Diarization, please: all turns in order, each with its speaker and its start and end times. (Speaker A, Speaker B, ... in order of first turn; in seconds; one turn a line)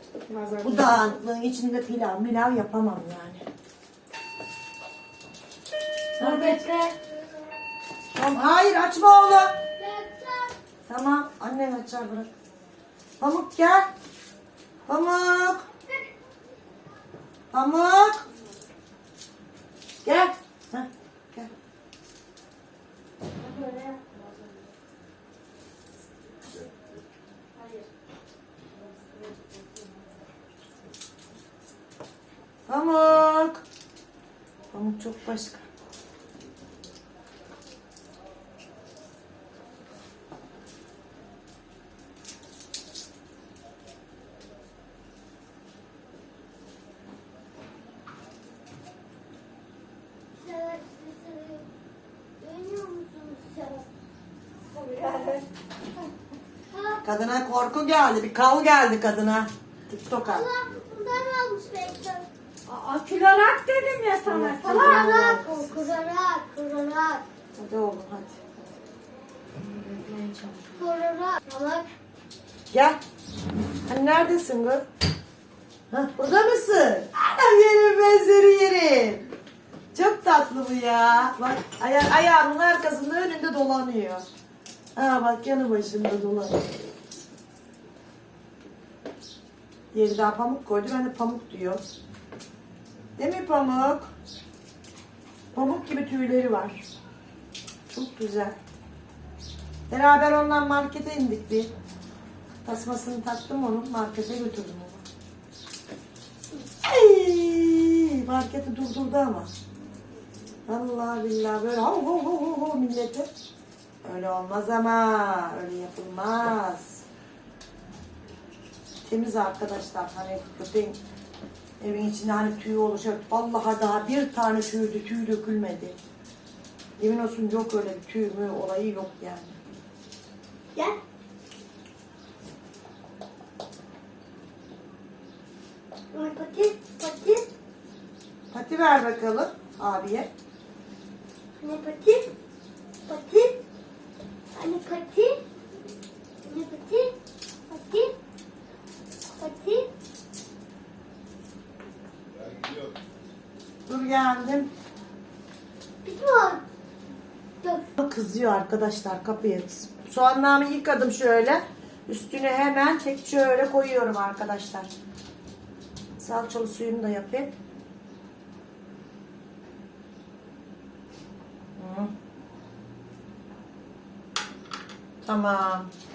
Speaker A: 0.2-1.0
Speaker B: 0.6-3.4
Speaker B: 6.2-6.6
Speaker A: 6.2-6.9
Speaker B: 8.1-9.6
Speaker C: 9.8-10.6
Speaker B: 10.9-12.3
Speaker B: 13.2-13.9
Speaker B: 14.9-15.7
Speaker B: 17.5-18.2
Speaker B: 20.0-21.5
Speaker A: 23.4-24.6
Speaker A: 27.5-27.9
Speaker A: 28.7-30.1
Speaker B: 32.7-33.6
Speaker B: 34.7-35.6
Speaker C: 50.3-51.7
Speaker C: 52.4-53.9
Speaker A: 54.7-55.5
Speaker C: 56.7-57.0
Speaker B: 57.0-60.5
Speaker C: 60.2-62.3
Speaker A: 62.6-65.2
Speaker B: 64.2-65.9
Speaker C: 64.6-67.2
Speaker B: 67.5-68.4
Speaker A: 69.6-70.7
Speaker C: 70.8-71.8
Speaker B: 72.7-73.0
Speaker B: 73.8-74.8
Speaker B: 75.9-79.3
Speaker B: 79.9-84.2
Speaker B: 85.0-86.7
Speaker B: 89.9-91.8
Speaker B: 93.2-94.1
Speaker B: 95.5-96.8
Speaker B: 97.9-98.5
Speaker B: 99.9-101.7
Speaker B: 102.6-105.0
Speaker B: 106.8-109.5
Speaker B: 110.7-113.3
Speaker B: 114.0-117.0
Speaker B: 119.0-121.0
Speaker B: 121.8-126.0
Speaker B: 127.0-129.6
Speaker C: 136.1-137.5
Speaker B: 138.5-140.3
Speaker C: 141.6-142.3
Speaker C: 143.1-143.6
Speaker C: 144.5-145.4
Speaker C: 146.4-147.2
Speaker C: 147.7-148.2
Speaker C: 149.4-149.9
Speaker B: 153.9-154.7
Speaker C: 156.0-156.6
Speaker C: 157.6-157.9
Speaker B: 158.0-164.9
Speaker B: 166.2-167.5
Speaker B: 171.8-172.1
Speaker B: 175.2-175.9